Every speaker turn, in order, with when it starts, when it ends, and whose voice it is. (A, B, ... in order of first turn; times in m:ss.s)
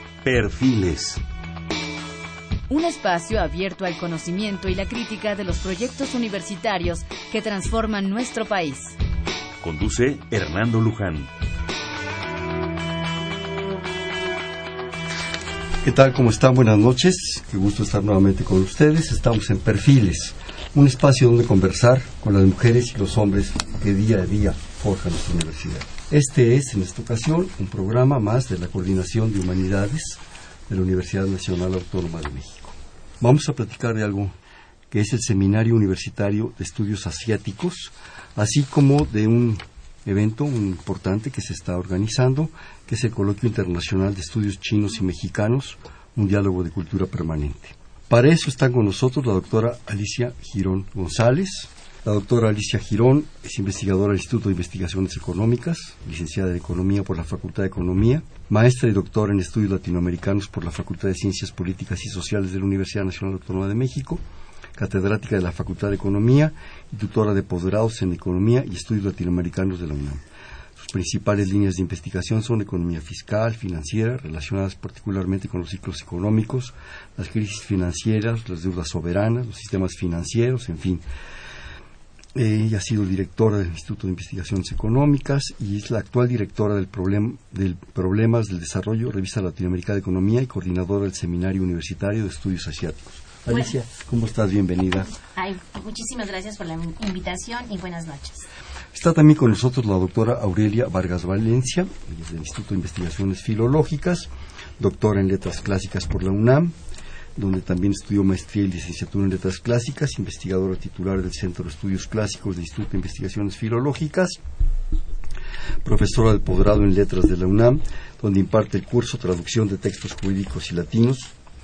0:00.2-0:01.2 A
0:02.7-0:09.0 B
0:09.6-0:11.3 A
0:15.8-0:34.4 C
0:34.9-1:04.2 C
1:04.8-1:10.2 C
1:10.8-1:21.0 C
1:22.3-1:35.1 C
1:35.4-1:38.5 D
1:38.9-1:46.7 C
1:47.4-1:54.4 C
1:55.8-2:01.3 C